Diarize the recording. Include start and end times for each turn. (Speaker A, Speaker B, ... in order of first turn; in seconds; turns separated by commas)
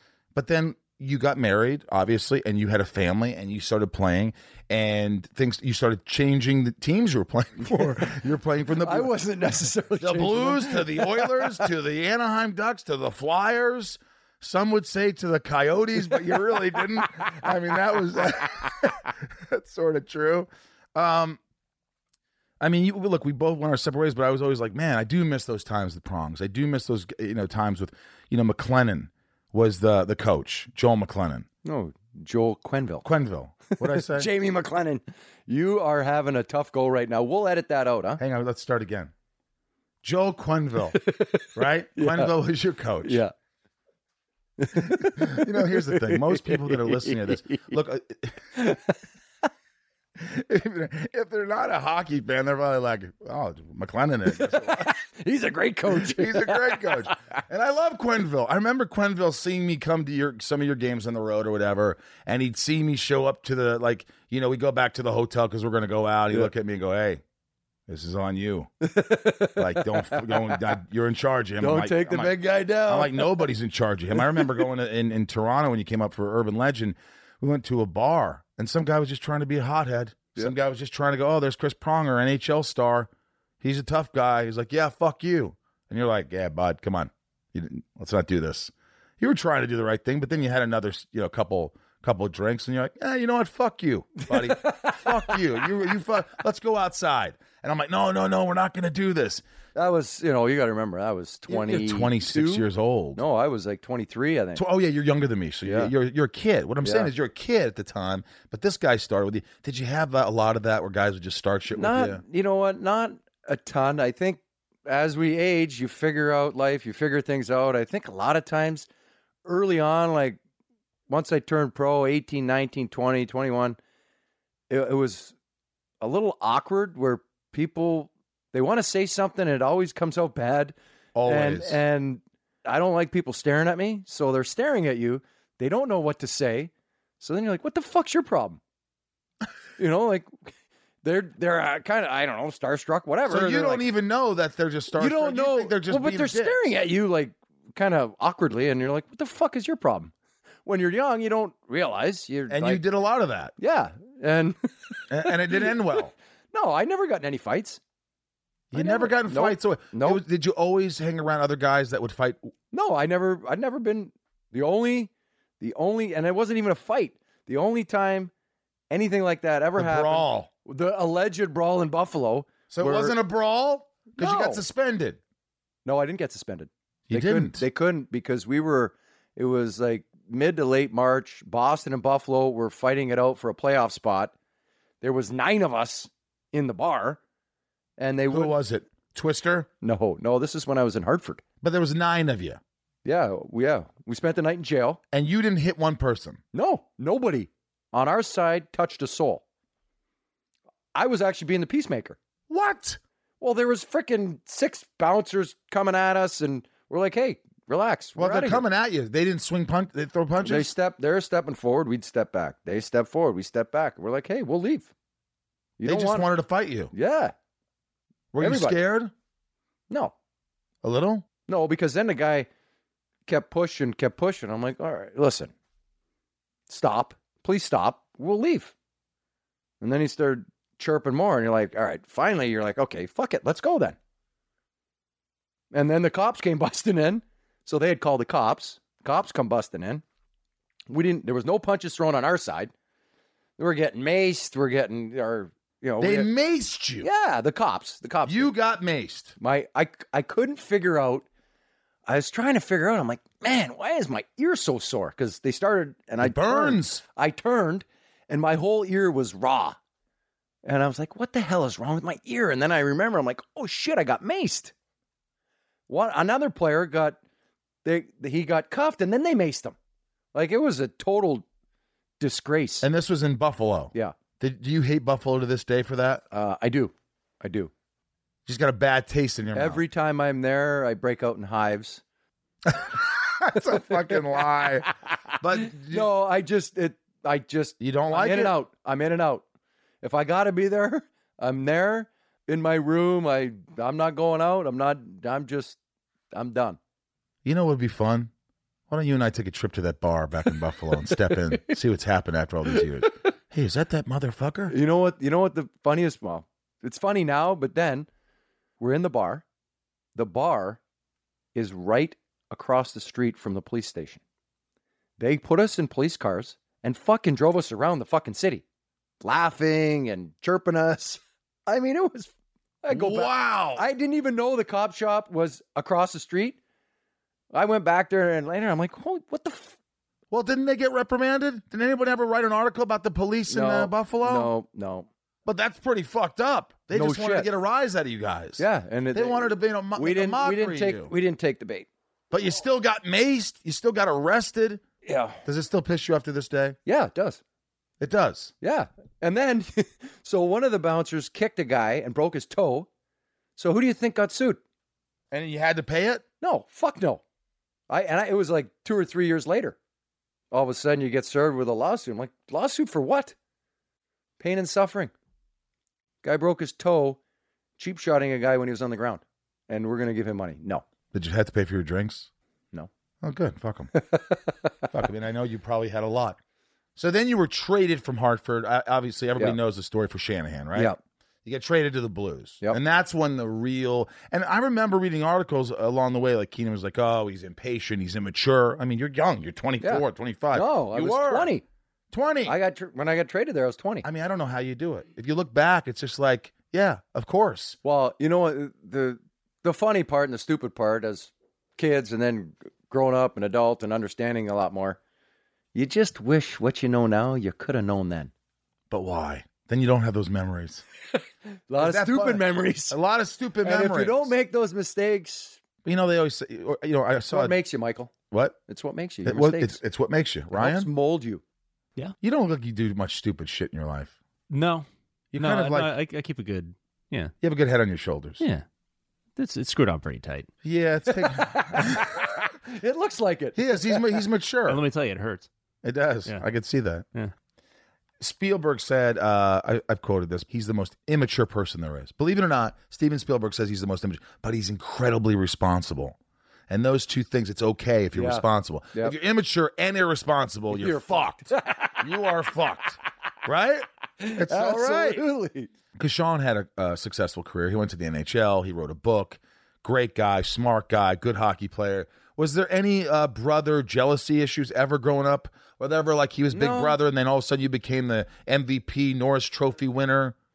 Speaker A: 0.3-9.1, Speaker B: 7.7-8.1, Speaker B: 8.8-11.7, Speaker A: 10.0-21.4, Speaker A: 22.6-31.5, Speaker B: 31.6-33.1, Speaker A: 33.0-34.3, Speaker B: 33.7-38.2, Speaker A: 38.2-39.1, Speaker A: 40.0-41.0, Speaker B: 41.0-42.3, Speaker A: 41.5-43.2, Speaker B: 43.0-43.3, Speaker B: 44.6-47.8, Speaker A: 44.8-48.4, Speaker B: 48.5-49.0, Speaker A: 50.2-54.9, Speaker B: 54.3-57.1, Speaker A: 55.9-67.2, Speaker A: 67.9-68.7, Speaker B: 68.8-70.7, Speaker A: 69.6-83.1, Speaker B: 71.6-73.5, Speaker B: 74.2-74.6, Speaker A: 83.6-99.4, Speaker B: 94.2-95.4, Speaker B: 99.8-104.6, Speaker A: 101.5-103.2, Speaker A: 104.5-112.2, Speaker B: 105.6-105.9, Speaker B: 106.8-107.1, Speaker B: 111.7-118.9, Speaker B: 119.5-120.4, Speaker B: 121.1-123.8, Speaker B: 124.7-125.3, Speaker B: 126.0-130.7, Speaker A: 131.2-131.8, Speaker B: 131.2-138.6, Speaker B: 139.8-140.5, Speaker B: 141.0-143.9, Speaker A: 143.3-146.7, Speaker B: 144.9-150.1, Speaker B: 150.7-152.8, Speaker A: 152.5-153.5, Speaker B: 153.6-157.8, Speaker A: 155.1-156.1, Speaker A: 158.7-162.5, Speaker B: 158.7-160.2, Speaker B: 162.7-168.3, Speaker B: 168.9-173.2, Speaker A: 169.8-170.5, Speaker A: 172.7-175.2, Speaker B: 174.2-174.6, Speaker B: 175.8-184.3, Speaker A: 177.1-177.6, Speaker B: 185.0-187.2, Speaker B: 188.0-188.6, Speaker A: 188.3-189.7, Speaker B: 189.8-191.4, Speaker A: 191.6-192.6, Speaker B: 193.1-195.0, Speaker A: 195.1-196.4, Speaker B: 196.5-199.4, Speaker B: 200.9-202.2, Speaker A: 202.5-203.0, Speaker B: 203.4-208.6, Speaker A: 208.2-210.7, Speaker B: 210.4-214.9, Speaker B: 215.8-216.3, Speaker A: 215.8-216.9, Speaker B: 216.9-217.3, Speaker A: 218.3-219.1, Speaker B: 218.4-218.8, Speaker A: 220.8-221.3, Speaker B: 221.5-222.5, Speaker B: 223.3-225.5, Speaker B: 226.7-228.7, Speaker B: 229.8-234.0, Speaker B: 235.7-240.0, Speaker B: 240.9-242.7, Speaker B: 243.6-246.3, Speaker A: 246.0-247.1, Speaker B: 247.0-248.5, Speaker A: 248.3-249.4, Speaker B: 249.4-251.2, Speaker B: 252.1-259.8, Speaker A: 256.2-257.0, Speaker B: 260.6-264.7, Speaker B: 265.9-267.2, Speaker B: 267.8-269.8, Speaker B: 270.3-271.4, Speaker B: 272.2-272.9, Speaker A: 272.8-276.2, Speaker B: 276.3-277.7, Speaker A: 278.5-279.8, Speaker B: 279.5-282.0, Speaker A: 282.7-284.9, Speaker B: 283.7-289.4, Speaker A: 285.4-286.1, Speaker A: 287.8-288.6, Speaker B: 290.0-295.8, Speaker B: 296.3-296.8, Speaker A: 297.4-298.3, Speaker A: 298.9-304.7, Speaker B: 301.1-301.7, Speaker B: 304.7-308.1, Speaker B: 308.8-309.4, Speaker B: 310.1-310.8, Speaker B: 311.6-314.2, Speaker B: 315.2-318.6, Speaker B: 319.2-326.6, Speaker A: 322.9-323.9, Speaker B: 327.5-329.8, Speaker A: 330.3-334.5, Speaker B: 333.5-335.1, Speaker A: 335.4-341.1, Speaker B: 336.9-337.5, Speaker B: 338.6-341.9, Speaker A: 342.3-344.8, Speaker B: 345.1-345.4, Speaker A: 345.4-346.8, Speaker B: 346.9-347.4, Speaker A: 348.0-348.5, Speaker B: 348.6-352.9, Speaker B: 353.6-354.6, Speaker A: 355.3-356.2, Speaker B: 356.4-357.2, Speaker B: 357.9-359.8, Speaker B: 360.5-363.4, Speaker B: 364.4-365.1, Speaker B: 366.2-367.2, Speaker B: 367.8-370.8, Speaker A: 371.1-372.3, Speaker A: 373.2-373.9, Speaker B: 374.0-374.4, Speaker A: 374.9-376.4, Speaker A: 377.0-391.5, Speaker B: 389.8-391.6, Speaker A: 392.1-392.6, Speaker B: 392.5-394.1, Speaker A: 394.0-397.8, Speaker B: 397.8-405.0, Speaker B: 405.7-408.3, Speaker A: 408.9-410.8, Speaker B: 411.7-413.0, Speaker A: 411.8-414.3, Speaker B: 413.6-415.6, Speaker A: 415.9-417.6, Speaker B: 417.3-418.1, Speaker A: 418.3-418.6, Speaker B: 418.7-419.8, Speaker A: 419.2-420.9, Speaker B: 420.5-421.4, Speaker A: 422.2-424.1, Speaker C: 424.5-424.9, Speaker A: 425.3-425.9, Speaker C: 425.4-427.3, Speaker A: 427.4-428.4, Speaker C: 429.4-430.5, Speaker A: 430.6-432.3, Speaker B: 431.3-434.2, Speaker A: 433.6-434.8, Speaker C: 434.7-435.5, Speaker A: 435.8-437.1, Speaker A: 438.2-446.2, Speaker A: 446.7-455.2, Speaker B: 448.1-449.1, Speaker B: 450.7-452.0, Speaker B: 454.2-455.7, Speaker A: 456.0-470.4, Speaker B: 466.5-467.0